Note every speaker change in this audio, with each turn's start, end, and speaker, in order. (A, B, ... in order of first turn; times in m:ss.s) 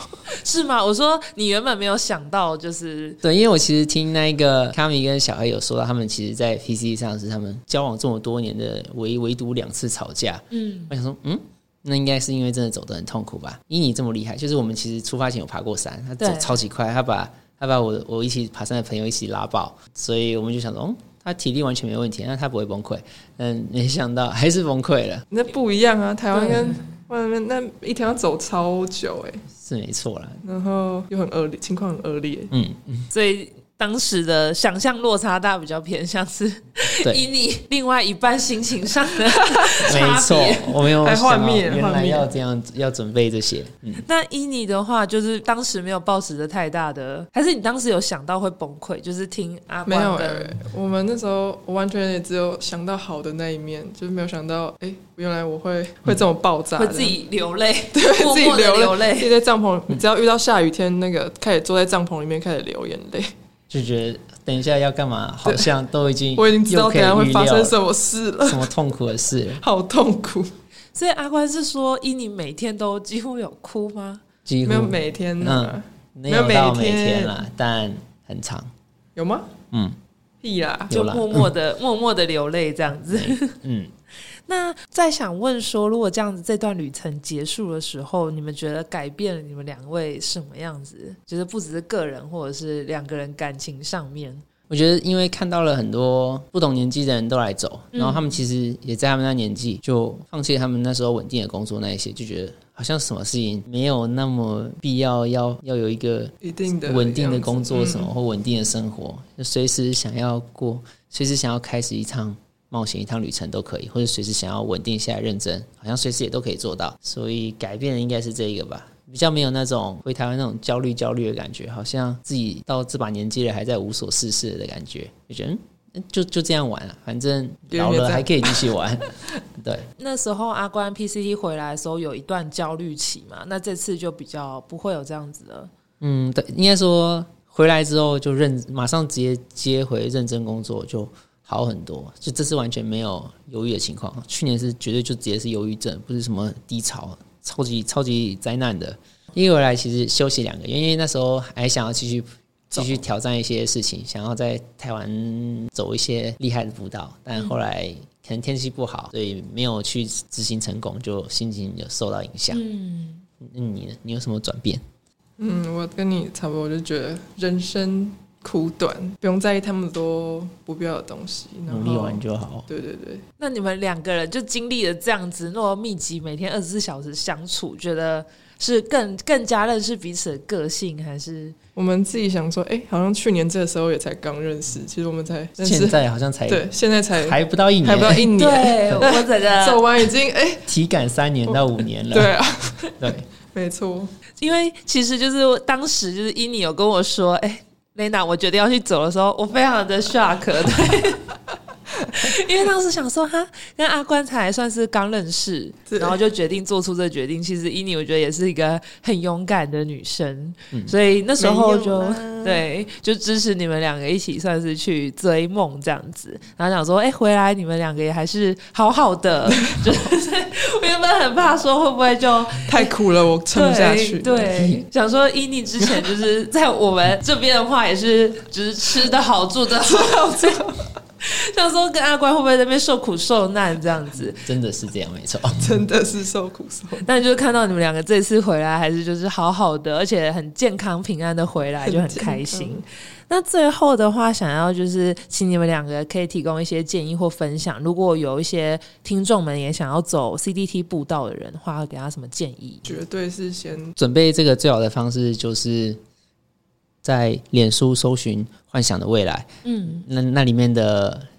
0:00.3-0:03.2 A
0:03.2-0:25.2 B
0:10.5-0:10.9 A
0:16.2-0:16.6 A
0:25.3-0:29.4 C
0:26.3-0:26.8 A
0:29.6-0:30.4 B
0:30.4-0:32.5 C
0:32.5-0:33.1 B
0:33.1-0:40.8 A
0:39.8-0:44.0 B
0:41.0-0:42.3 C
0:44.0-0:50.5 A
0:49.8-0:57.2 C
0:56.8-0:59.3 A
0:57.9-1:03.3 C
1:03.7-1:07.7 B
1:05.4-1:05.7 C
1:06.3-1:08.7 C
1:08.4-1:09.6 B
1:09.6-1:10.5 C
1:10.9-1:14.2 A
1:14.4-1:18.7 B
1:14.6-1:17.4 C
1:19.2-1:19.5 C
1:19.7-1:20.0 B
1:20.4-1:20.9 C
1:20.9-1:21.5 B
1:20.9-1:23.5 A
1:23.1-1:23.9 B
1:24.5-1:34.4 A
1:34.7-2:09.0 B
1:37.9-1:38.2 A
1:46.4-1:48.1 C
2:07.7-2:08.7 C
2:09.6-2:09.9 B
2:10.0-2:15.7 A
2:16.0-2:42.6 B
2:32.7-2:33.0 C
2:42.5-2:43.2 A
2:43.4-2:44.8 B
2:45.4-2:53.2 C
2:51.7-2:52.6 B
2:53.4-3:01.5 A
3:01.8-3:10.7 C
3:05.6-3:06.6 B
3:07.2-3:08.3 B
3:08.3-3:09.8 A
3:10.7-3:12.3 B
3:11.5-3:14.1 C
3:13.0-3:13.2 B
3:14.4-3:21.3 A
3:22.1-3:42.8 A
3:25.9-3:26.2 C
3:31.4-3:32.6 C
3:42.6-3:44.6 C
3:43.5-3:50.6 A
3:44.5-3:44.8 B
3:45.8-3:46.1 C
3:49.8-3:50.8 C
3:51.2-3:54.4 A
3:54.4-3:55.6 B
3:55.6-3:57.1 C
3:57.0-4:13.0 A
4:01.8-4:02.8 C
4:12.8-4:13.9 C
4:14.0-4:16.0 B
4:17.0-4:21.3 B
4:19.6-4:20.0 A